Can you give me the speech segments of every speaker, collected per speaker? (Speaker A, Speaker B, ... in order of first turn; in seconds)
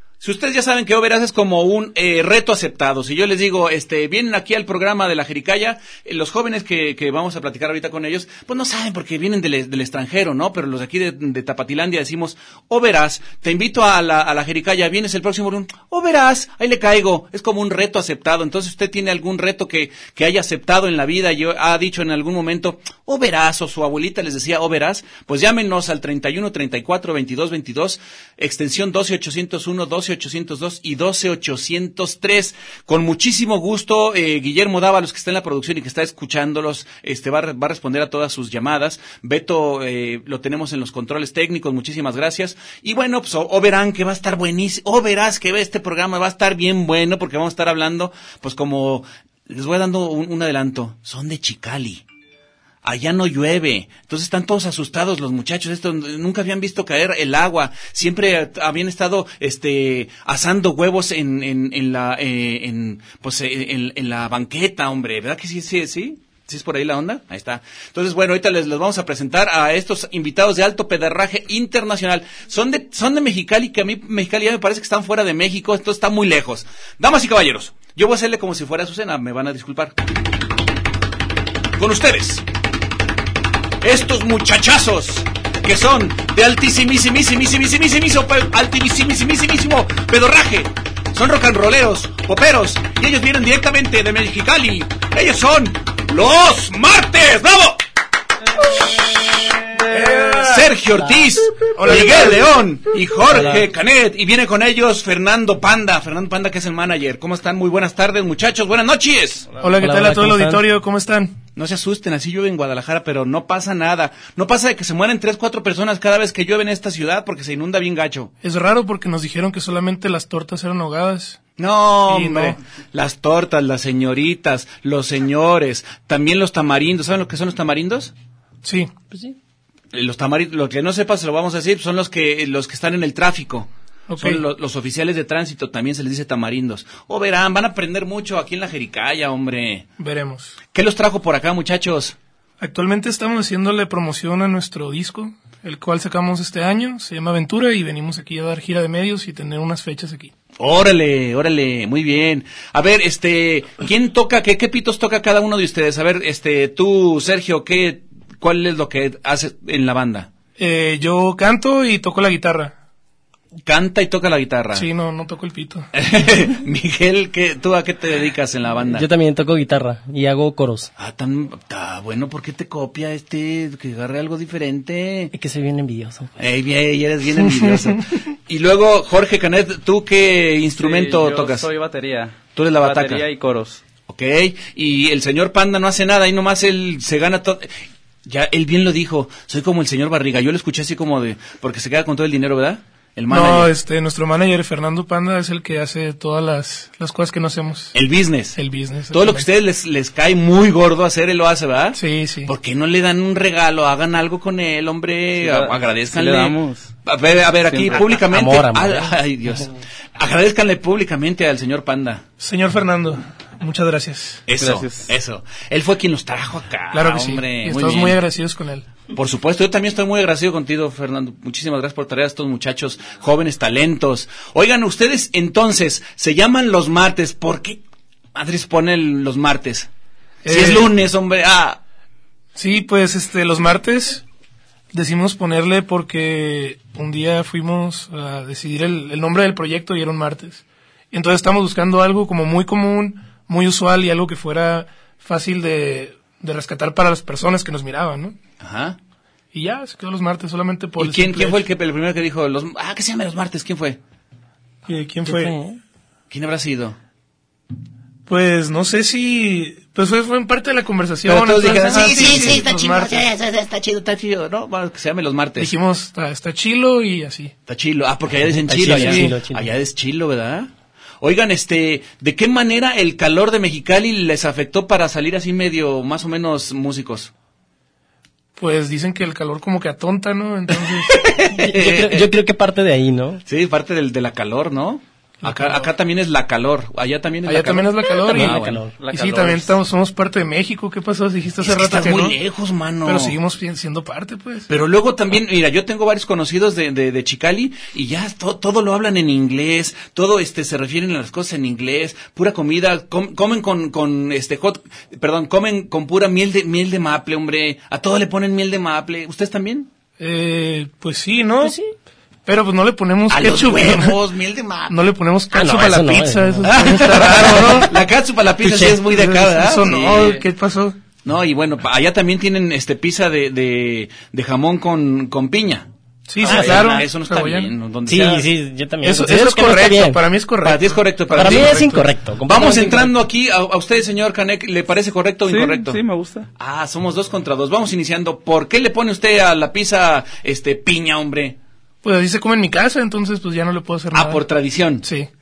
Speaker A: 0.2-52.0, 52.8-79.9, 81.8-82.4, 83.8-97.8, 99.8-109.5, 111.5-118.3, 121.6-128.1, 129.9-139.8, 140.7-142.2, 150.6-160.3, 163.6-164.9, 165.9-169.1, 171.0-175.3, 176.4-181.7, 182.6-183.2, 184.1-187.7, 188.2-193.7, 197.9-198.6, 199.1-212.2, 214.5-218.2, 219.1-227.8, 228.3-229.9, 230.4-231.8, 248.6-249.0, 251.0-254.0, 256.3-257.0, 261.2-265.7, 267.7-277.3, 280.9-282.3, 283.4-288.8, 291.6-293.4, 294.7-309.9, 313.3-314.9, 316.6-320.4, 321.2-325.9, 326.4-328.5, 330.6-336.0, 336.6-341.6, 344.1-345.1
Speaker B: 99.9-100.6, 101.7-102.5, 109.6-111.4, 118.4-121.4, 122.1-122.6, 128.6-128.9, 134.1-134.4, 140.0-140.6, 142.6-150.3, 160.6-162.7, 164.7-165.9, 193.3-197.9, 198.5-199.5, 201.9-202.5, 212.4-214.4, 216.9-218.8, 230.4-230.9, 232.6-234.2, 234.9-248.4, 249.5-251.6, 254.9-255.5, 258.3-263.3, 265.6-267.5, 268.8-269.4, 278.6-281.2, 285.5-285.8, 287.4-292.4, 293.0-294.7, 310.2-311.8, 312.4-314.2, 314.9-317.9, 318.7-321.0, 326.3-327.7, 329.0-332.1, 342.0-344.4
Speaker C: 103.3-103.6, 109.8-110.6, 168.9-170.9, 175.3-176.3, 208.2-209.2, 255.2-255.8, 268.7-269.7, 281.4-283.4, 288.3-288.9, 311.6-311.9, 315.5-317.7, 326.4-327.0, 328.1-330.2, 331.4-333.2
Speaker D: 180.8-183.8, 205.4-206.9, 207.6-208.1, 214.6-215.1, 288.5-289.8, 335.4-336.5